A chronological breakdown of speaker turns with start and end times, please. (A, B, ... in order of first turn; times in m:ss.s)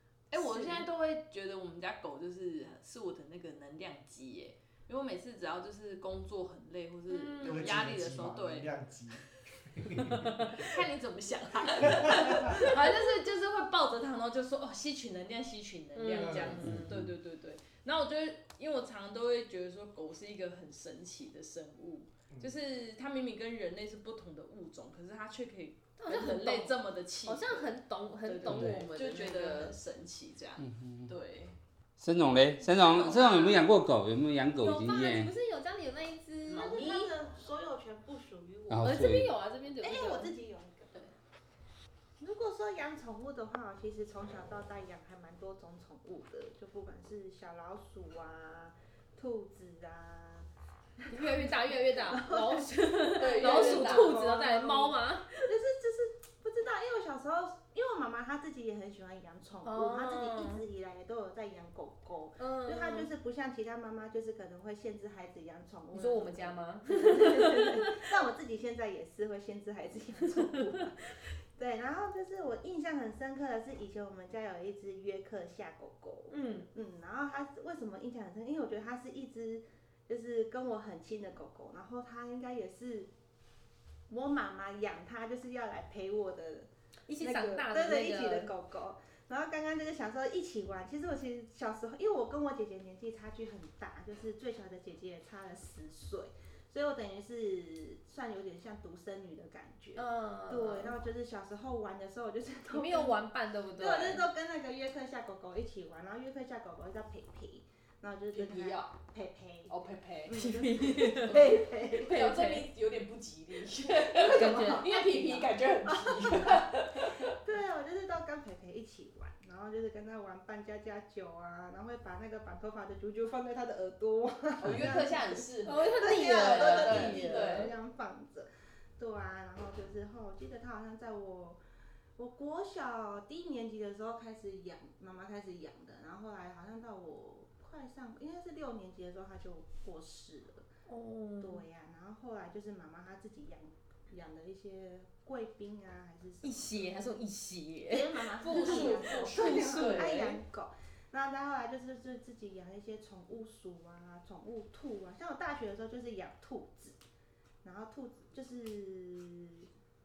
0:00.3-0:08.7 A
0:00.3-0:00.9 B
0:07.1-0:07.7 B
0:07.4-0:10.3 C
0:10.1-0:27.7 A
0:10.2-0:10.5 B
0:11.8-0:12.6 C
0:16.0-0:16.9 B
0:16.1-0:16.8 C
0:16.6-0:17.1 D
0:26.0-0:29.8 B
0:28.2-0:31.6 A
0:28.5-0:28.8 D
0:30.6-0:31.1 D
0:32.0-0:35.3 D
0:32.7-0:33.6 A
0:34.6-0:37.4 B
0:36.5-0:38.9 E
0:38.7-0:39.3 D
0:38.8-0:40.3 B
0:39.8-0:41.0 E
0:42.2-0:50.5 E
0:51.0-1:23.1 E
0:51.1-0:55.4 B
0:53.2-0:54.2 A
0:59.6-1:00.6 B
1:02.4-1:03.1 B
1:05.9-1:07.9 B
1:16.3-1:16.7 B
1:24.1-1:43.2 E
1:27.1-1:28.5 B
1:40.0-1:41.0 B
1:42.7-1:44.3 B
1:43.8-1:49.7 E
1:48.3-1:48.9 A
1:49.7-1:57.4 A
1:50.2-1:52.2 E
1:50.8-1:52.7 B
1:54.1-1:56.7 E
1:54.2-1:55.4 B
1:57.2-2:11.6 E
2:04.6-2:07.7 A
2:05.6-2:07.7 B
2:12.2-2:20.7 E
2:20.9-2:21.6 B
2:21.4-2:27.0 E
2:26.4-2:30.4 B
2:27.9-2:37.0 E
2:28.5-2:30.3 A
2:37.6-2:39.7 E